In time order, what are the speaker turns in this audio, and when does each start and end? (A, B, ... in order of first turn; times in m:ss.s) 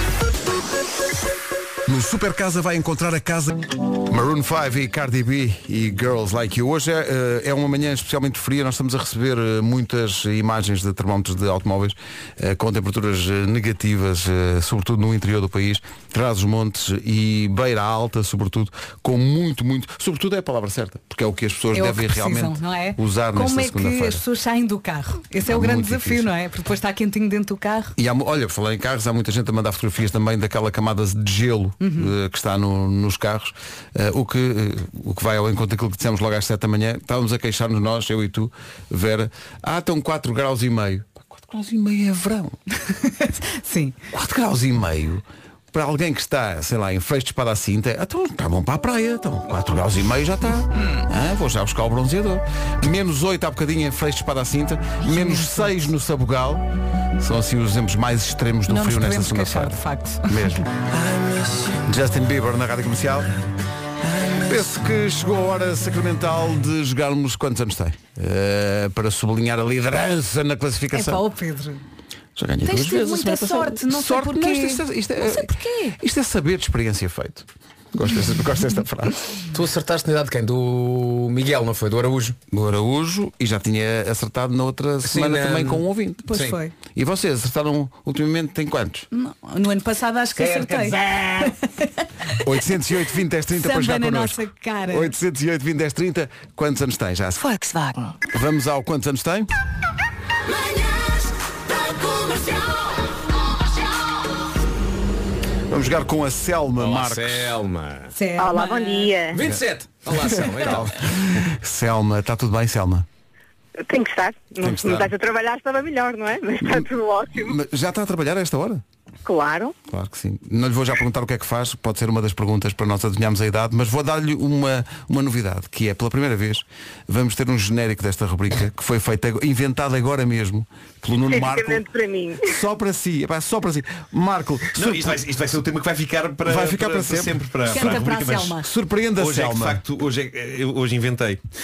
0:01.8-0:24.2 A
0:21.7-0:27.9 B
0:25.4-0:26.3 A
0:28.0-0:42.6 A
0:31.8-0:32.1 B
0:43.1-0:44.0 B
0:44.1-0:56.6 A
0:55.0-0:55.7 B
0:57.2-1:00.7 A
0:58.7-1:00.6 B
1:01.7-1:03.3 A
1:04.4-1:11.2 A
1:10.9-1:11.8 B
1:12.4-1:19.2 A
1:12.6-1:16.0 B
1:19.5-1:22.4 C
1:22.5-1:29.1 A
1:25.0-1:26.6 C
1:26.3-1:26.7 B
1:29.1-1:31.5 B
1:30.4-1:31.3 C
1:32.4-1:37.5 A
1:33.6-1:35.1 B
1:38.3-1:39.5 A
1:45.7-1:47.5 A
1:46.8-1:48.1 C
1:48.1-1:49.1 B
1:48.4-1:49.4 D
1:49.3-1:50.9 C
1:50.3-1:53.0 A
1:53.8-1:57.5 D
1:54.6-1:55.1 A
1:56.6-1:58.8 A
1:59.2-1:59.7 D
1:59.9-2:11.8 A
2:11.3-2:12.5 D
2:12.4-2:15.2 A
2:14.7-2:18.6 E
2:16.4-2:18.0 A
2:17.7-2:18.6 B
2:18.6-2:19.8 A
2:19.2-2:21.4 E